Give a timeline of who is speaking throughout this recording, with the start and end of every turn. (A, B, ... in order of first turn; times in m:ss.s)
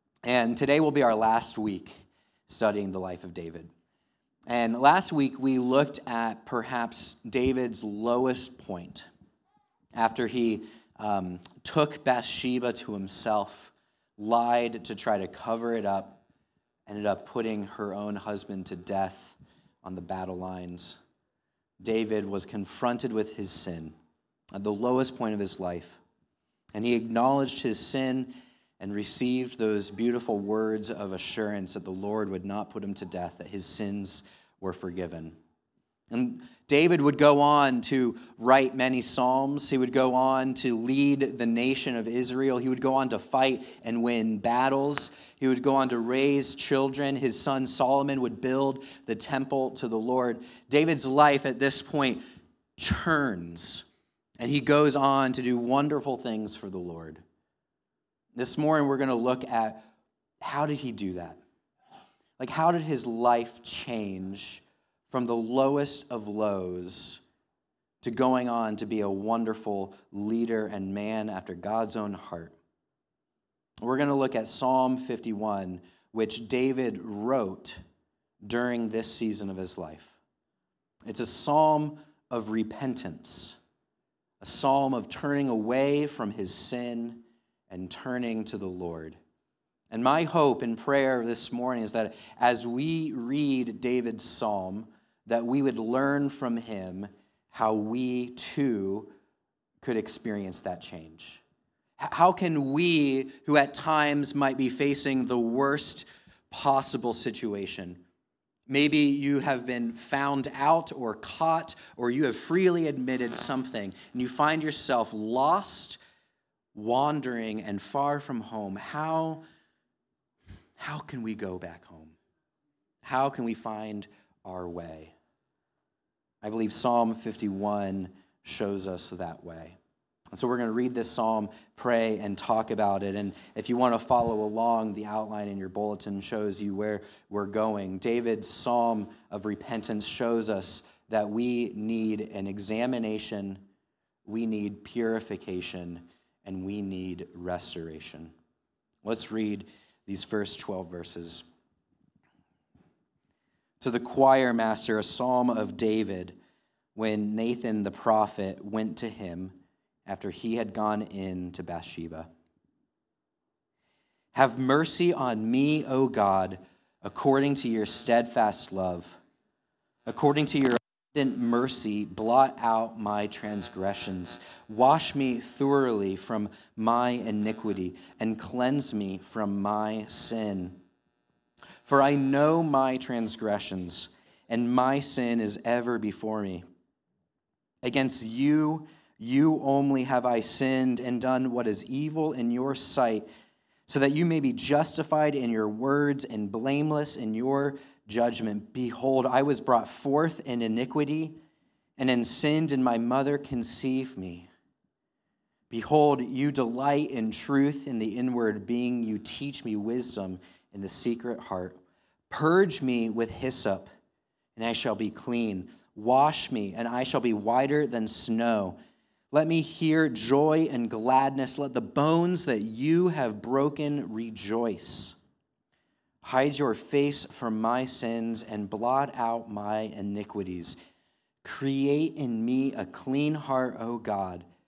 0:00.2-0:03.7 A
0:04.5-0:09.1 A
0:09.9-0:16.2 A
0:16.9-0:21.0 A
0:21.8-0:23.9 A
0:24.5-0:26.0 A
0:26.7-0:35.4 A
0:36.1-0:52.2 A
0:52.8-0:53.8 A
0:54.4-0:57.2 A
0:58.3-0:59.8 A
1:00.4-1:01.4 A
1:02.4-1:07.2 A
1:08.0-1:12.6 A
1:13.8-1:17.8 A
1:18.4-1:20.2 A
1:21.0-1:23.6 A
1:24.4-1:29.2 A
1:29.9-1:39.1 A
1:39.8-1:41.4 A
1:42.0-1:48.0 A
1:48.7-1:56.0 A
1:56.7-1:59.4 A
2:00.8-2:02.1 A
2:03.0-2:05.1 A
2:06.4-2:09.8 A
2:10.3-2:23.6 A
2:24.2-2:28.3 A
2:29.0-2:31.4 A
2:33.8-2:36.3 A
2:36.9-2:42.3 A
2:44.3-2:49.2 A
2:50.1-3:00.8 A
3:01.8-3:06.6 A
3:07.8-3:13.2 A
3:13.9-3:21.4 A
3:22.0-3:24.5 A
3:25.7-3:31.8 A
3:32.3-3:33.9 A
3:34.6-3:38.8 A
3:39.3-3:45.2 A
3:46.2-3:50.8 A
3:51.4-3:54.4 A